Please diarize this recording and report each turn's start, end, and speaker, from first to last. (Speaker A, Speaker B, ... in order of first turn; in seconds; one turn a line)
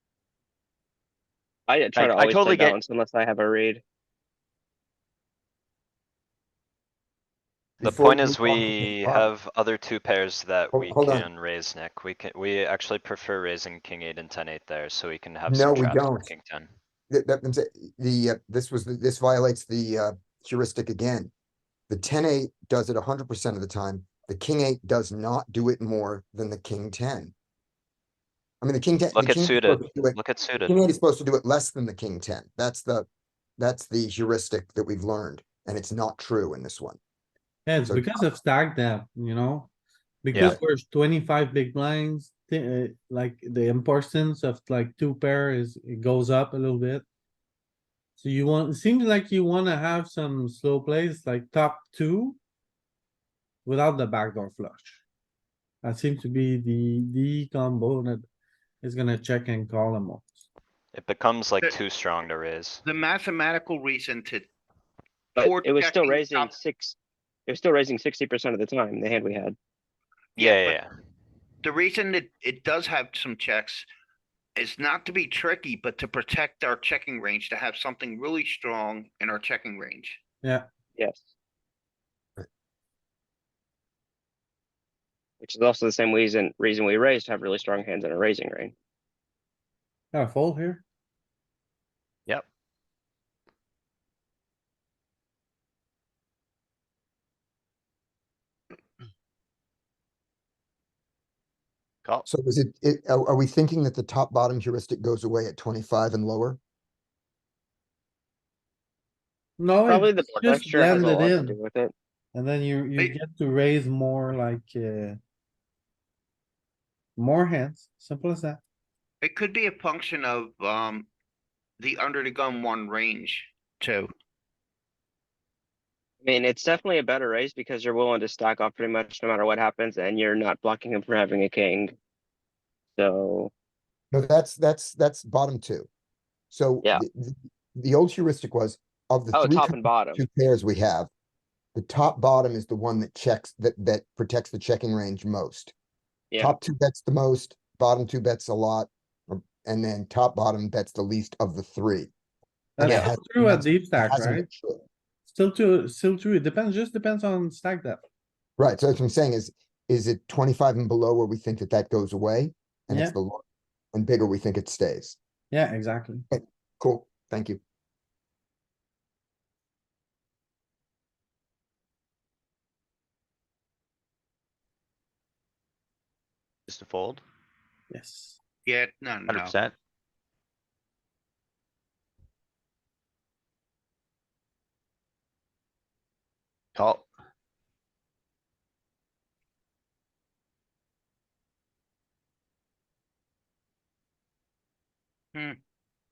Speaker A: 1.7-3.8
Speaker B: 1.9-2.8
Speaker C: 7.8-9.3
Speaker D: 7.8-16.7
Speaker C: 10.7-11.3
Speaker C: 15.5-16.3
Speaker C: 17.1-21.3
Speaker C: 21.9-27.3
Speaker C: 28.6-33.1
Speaker D: 29.1-30.8
Speaker C: 33.6-37.0
Speaker E: 37.6-39.7
Speaker C: 37.9-38.2
Speaker E: 40.2-47.0
Speaker E: 48.2-52.4
Speaker E: 53.6-55.0
Speaker E: 55.8-58.2
Speaker E: 58.8-60.4
Speaker D: 60.9-62.8
Speaker F: 62.8-64.4
Speaker A: 65.3-69.5
Speaker F: 65.4-66.5
Speaker D: 70.3-70.9
Speaker F: 70.4-70.8
Speaker F: 71.6-73.9
Speaker F: 74.5-80.2
Speaker A: 81.0-81.3
Speaker A: 85.4-88.7
Speaker E: 90.1-90.8
Speaker C: 102.2-106.6
Speaker E: 109.6-111.6
Speaker A: 109.8-111.9
Speaker E: 112.3-115.2
Speaker E: 117.2-118.6
Speaker F: 119.2-121.1
Speaker F: 121.8-124.1
Speaker A: 126.2-131.9
Speaker A: 133.0-133.5
Speaker C: 134.1-135.9
Speaker C: 136.5-141.1
Speaker A: 139.3-140.2
Speaker C: 141.7-145.7
Speaker A: 146.3-146.6
Speaker C: 146.4-152.1
Speaker E: 152.8-154.5
Speaker C: 152.8-154.8
Speaker E: 155.2-158.0
Speaker C: 158.6-163.4
Speaker E: 162.9-163.2
Speaker C: 163.9-165.2
Speaker E: 165.5-166.2
Speaker C: 166.3-167.6
Speaker B: 176.7-177.2
Speaker E: 177.9-178.4
Speaker F: 178.7-179.6
Speaker B: 179.3-179.7
Speaker B: 186.7-187.1